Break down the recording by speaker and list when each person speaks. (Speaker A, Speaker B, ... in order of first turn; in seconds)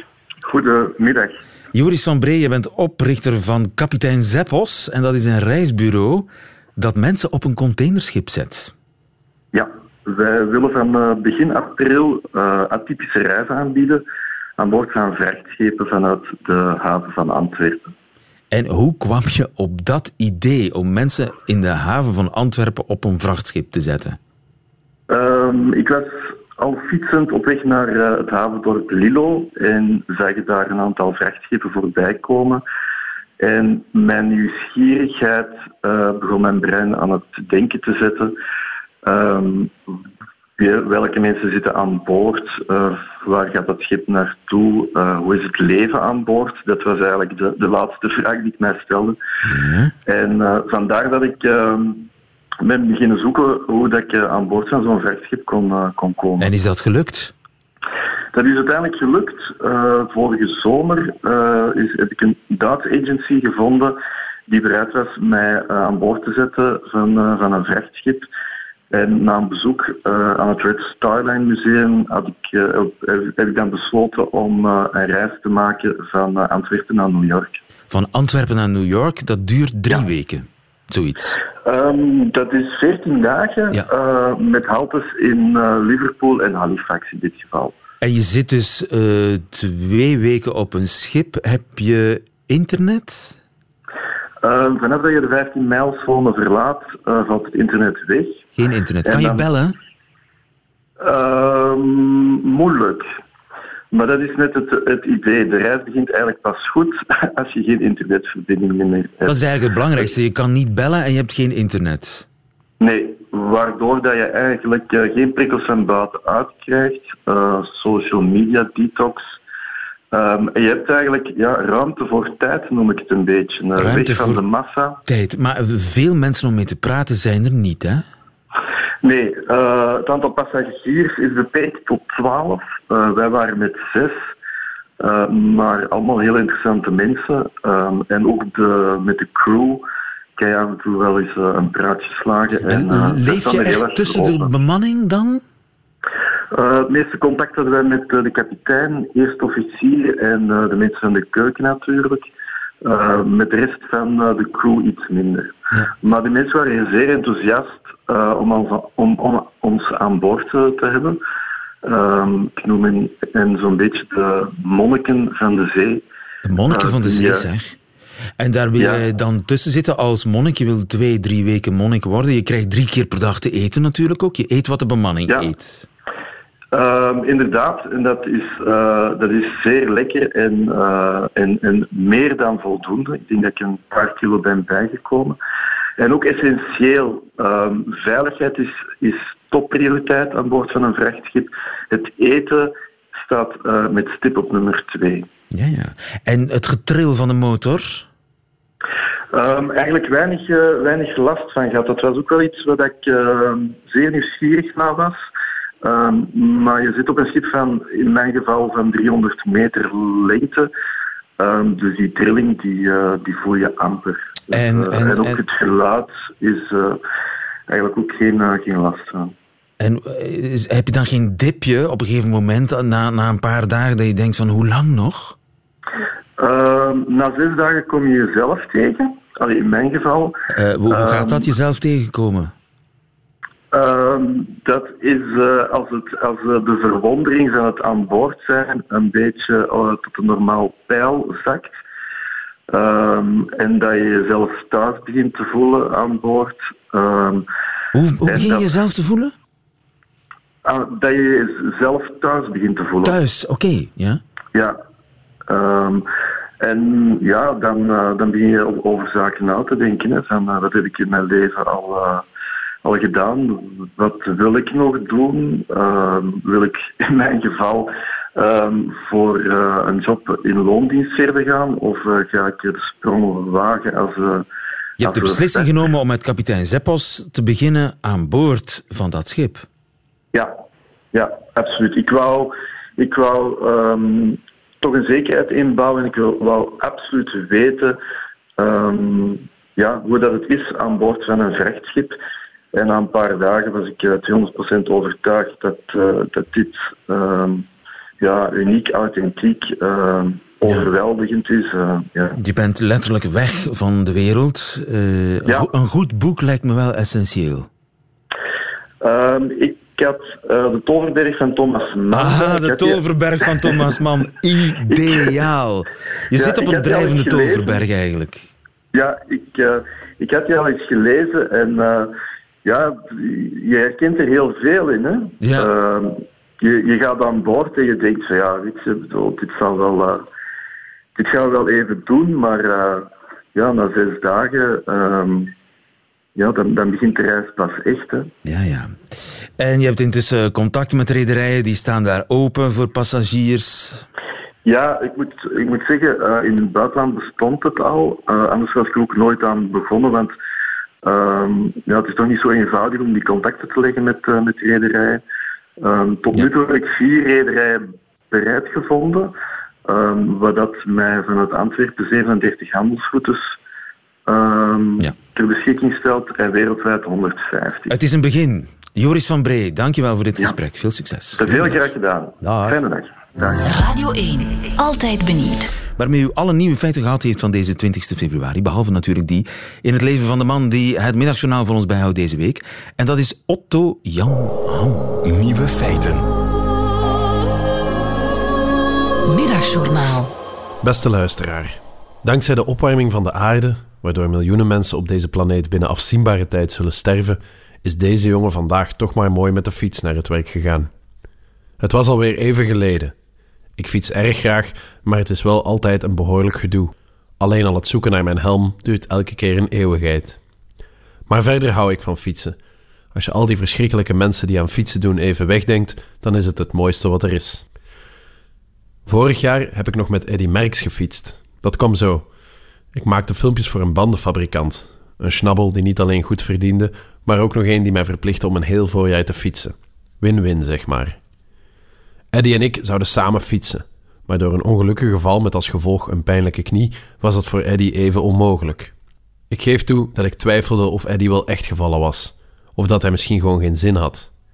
Speaker A: 0.5-1.4, 9.5-14.0, 14.6-17.9, 25.1-32.6, 33.4-38.4, 39.0-40.0, 40.6-49.2, 50.1-52.1, 52.6-56.5, 58.3-64.0, 64.5-68.3, 68.9-77.6, 81.6-87.8, 94.4-98.5, 99.0-99.5, 101.0-103.1, 103.9-109.4, 112.8-119.4, 120.1-125.0, 129.0-134.2, 135.0-139.8, 140.4-144.5, 146.5-152.3, 152.8-161.2, 161.8-166.1, 166.7-167.5, 168.8-169.1, 176.7-185.4, 186.0-195.3, 199.3-205.2, 205.8-210.7, 211.4-217.0, 217.7-219.3, 226.4-231.5, 233.7-241.8, 242.7-247.5, 248.3-248.7, 250.7-253.2, 254.5-254.8, 255.5-256.1, 256.6-262.2, 262.8-274.5, 275.0-275.7, 280.3-280.6, 281.1-288.0, 288.6-292.2, 292.7-297.7, 298.2-302.4, 309.0-313.8, 314.9-315.5, 316.4-317.8, 318.9-330.2, 331.2-335.5, 336.4-338.3, 344.6-350.3, 351.0-355.2, 355.8-359.3, 359.9-363.6, 364.3-368.0, 371.4-373.6
Speaker B: 1.7-8.7, 18.5-24.2, 49.5-49.9, 56.4-57.3, 77.9-81.4, 88.0-93.3, 98.6-99.8, 109.2-112.3, 123.8-124.4, 125.1-128.0, 142.7-145.4, 166.4-167.8, 168.4-175.9, 195.5-198.1, 214.5-215.4, 219.8-225.4, 230.5-232.5, 247.9-249.3, 253.0-254.2, 275.0-279.6, 302.4-307.7, 312.1-318.5, 325.4-325.7, 338.5-339.0, 339.6-344.1, 367.9-371.8, 372.4-372.8, 376.0-386.3
Speaker C: 373.6-375.7, 389.3-390.3
Speaker D: 390.8-400.9, 401.8-403.1, 403.8-410.4, 411.3-412.6, 413.1-417.6, 419.1-422.3, 422.9-431.2, 432.3-438.9, 439.5-444.3